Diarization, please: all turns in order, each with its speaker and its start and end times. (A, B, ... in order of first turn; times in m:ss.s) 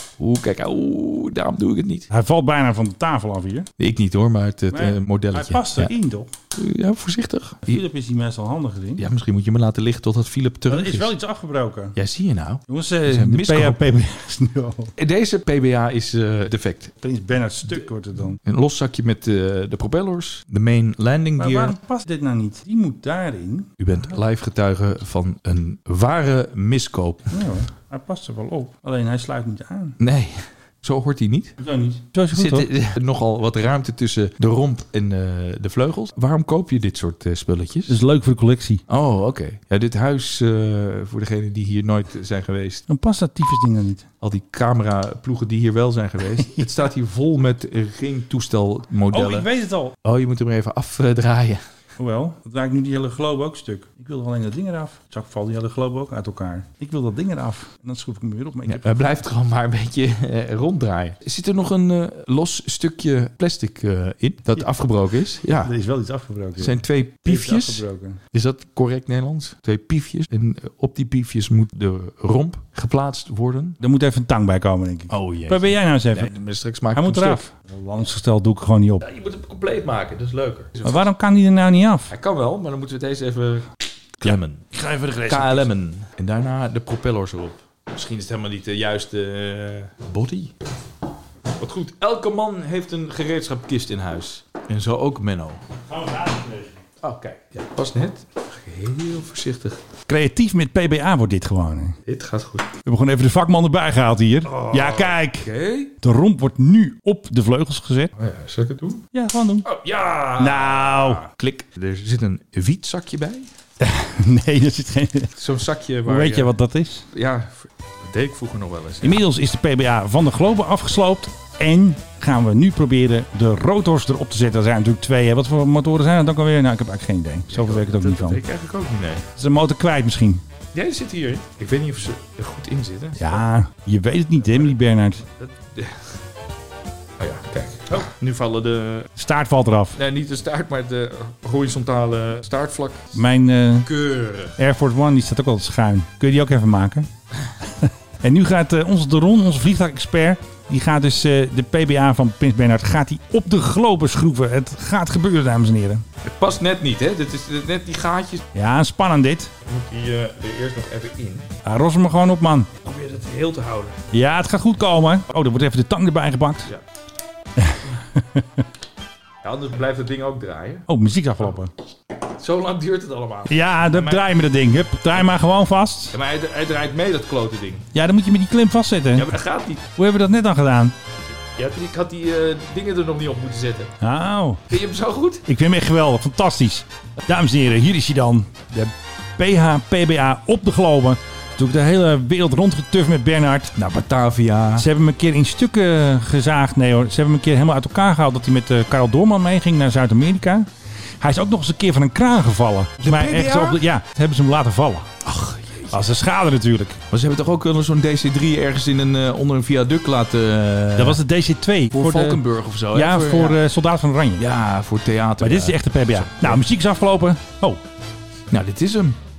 0:00.2-0:02.1 A
0:02.1-0:03.7 B
0:03.8-0:05.9 A
0:04.7-0:06.3 B
0:06.6-0:07.8 A
0:07.7-0:09.0 B
0:09.0-0:11.1 A
0:10.7-0:12.0 B
0:12.0-0:13.8 A
0:12.7-0:14.9 B
0:15.0-0:17.0 A
0:17.0-0:18.4 B
0:18.4-0:21.8 A
0:21.4-0:23.7 B
0:23.8-0:27.4 A
0:27.3-0:30.0 B
0:30.0-0:31.6 A
0:31.6-0:32.7 B
0:32.3-0:38.0 A
0:37.9-0:38.8 B
0:38.9-0:42.8 A
0:42.9-0:44.0 B
0:44.2-0:49.5 A
0:49.1-0:50.0 B
0:50.0-0:51.6 A
0:52.0-0:59.0 B
0:58.6-1:05.7 A
1:05.6-1:08.2 B
1:06.6-1:13.8 A
1:13.8-1:16.3 B
1:15.1-1:17.5 A
1:16.9-1:19.1 B
1:19.0-1:21.1 A
1:20.8-1:22.1 B
1:22.1-1:23.7 A
1:24.2-1:24.7 A
1:24.2-1:25.7 B
1:25.2-1:30.5 A
1:31.6-1:35.6 A
1:35.9-1:36.8 B
1:37.0-1:39.8 A
1:40.1-1:42.0 B
1:42.0-1:42.8 A
1:42.8-1:45.5 B
1:44.4-1:45.9 A
1:46.0-1:48.1 B
1:48.2-1:49.0 A
1:49.1-1:49.7 B
1:49.6-1:53.5 A
1:50.4-1:51.2 B
1:53.8-1:55.3 B
1:55.4-1:56.5 A
1:56.0-1:57.0 B
1:57.1-1:59.2 A
1:59.0-2:08.4 B
2:07.5-2:09.3 A
2:09.4-2:10.4 B
2:10.7-2:13.4 A
2:13.2-2:15.2 B
2:15.4-2:16.2 A
2:17.2-2:19.1 A
2:19.2-2:20.0 B
2:20.0-2:23.2 A
2:23.1-2:23.9 B
2:23.8-2:24.6 A
2:24.6-2:27.1 B
2:27.8-2:36.0 B
2:36.2-2:38.5 A
2:38.5-2:39.5 B
2:39.6-2:41.5 A
2:41.6-2:42.7 B
2:42.8-2:44.0 A
2:44.1-2:46.7 B
2:47.6-2:48.6 B
2:49.4-2:50.9 A
2:50.9-2:51.7 B
2:52.2-2:54.2 A
2:53.5-2:56.2 B
2:56.1-2:57.9 A
2:57.9-2:59.3 B
2:59.1-2:59.9 A
2:59.9-3:00.9 B
3:01.6-3:03.9 A
3:04.0-3:04.6 B
3:04.7-3:05.5 A
3:05.5-3:08.7 B
3:09.4-3:13.7 B
3:13.8-3:14.9 A
3:14.8-3:20.7 B
3:21.2-3:25.1 B
3:23.0-3:23.8 A
3:25.2-3:26.1 A
3:25.9-3:27.0 B
3:27.1-3:31.2 A
3:31.0-3:34.4 B
3:31.9-3:33.6 A
3:34.4-3:36.6 A
3:35.4-3:37.8 B
3:38.5-3:39.2 A